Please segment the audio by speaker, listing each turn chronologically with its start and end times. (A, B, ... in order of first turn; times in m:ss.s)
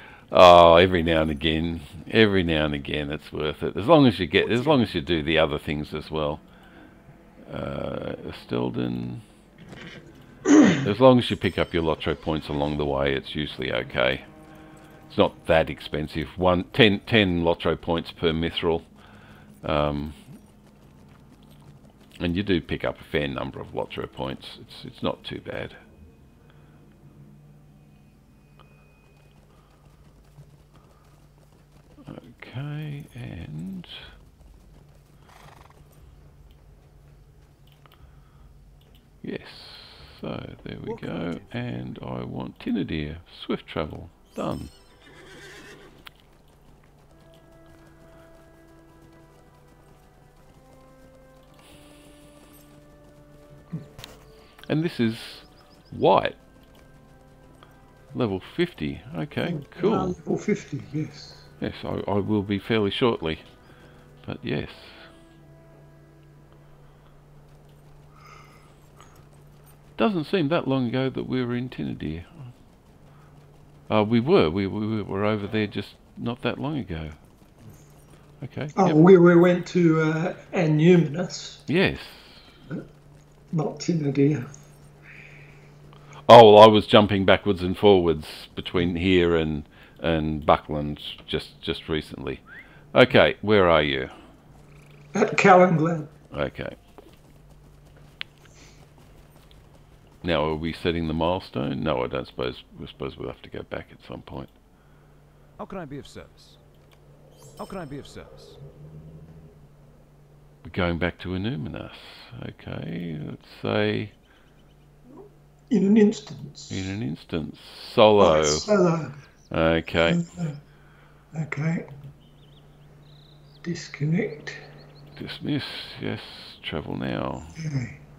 0:00.3-0:06.4 A
0:07.5-0:09.2 A
0:10.7-0:14.3 A
0:15.1-0:18.9 A
0:19.6-0:20.2 A
0:22.2-0:25.8 A
0:32.1-0:34.0 A
0:39.2-0:44.7 A
0:40.9-0:42.0 B
0:54.7-0:56.4 A
0:58.1-1:00.2 A
0:59.4-1:01.5 C
1:01.6-1:03.4 A
1:04.2-1:05.1 A
1:10.0-1:12.4 A
1:13.9-1:17.2 A
1:18.4-1:19.0 A
1:18.8-1:21.6 C
1:21.7-1:22.4 A
1:23.5-1:24.5 C
1:26.3-1:32.4 A
1:32.9-1:34.1 A
1:35.1-1:36.1 C
1:36.3-1:36.8 A
1:40.2-1:44.5 A
1:45.6-1:46.6 B
1:47.6-1:48.6 B
1:50.6-1:54.1 A
1:55.1-1:57.0 C
1:56.7-1:58.7 A
1:58.2-1:59.2 C
1:59.5-2:00.2 A
2:00.1-2:00.6 C
2:01.3-2:01.9 C
2:03.6-2:04.6 C
2:05.2-2:07.6 A
2:07.6-2:08.0 C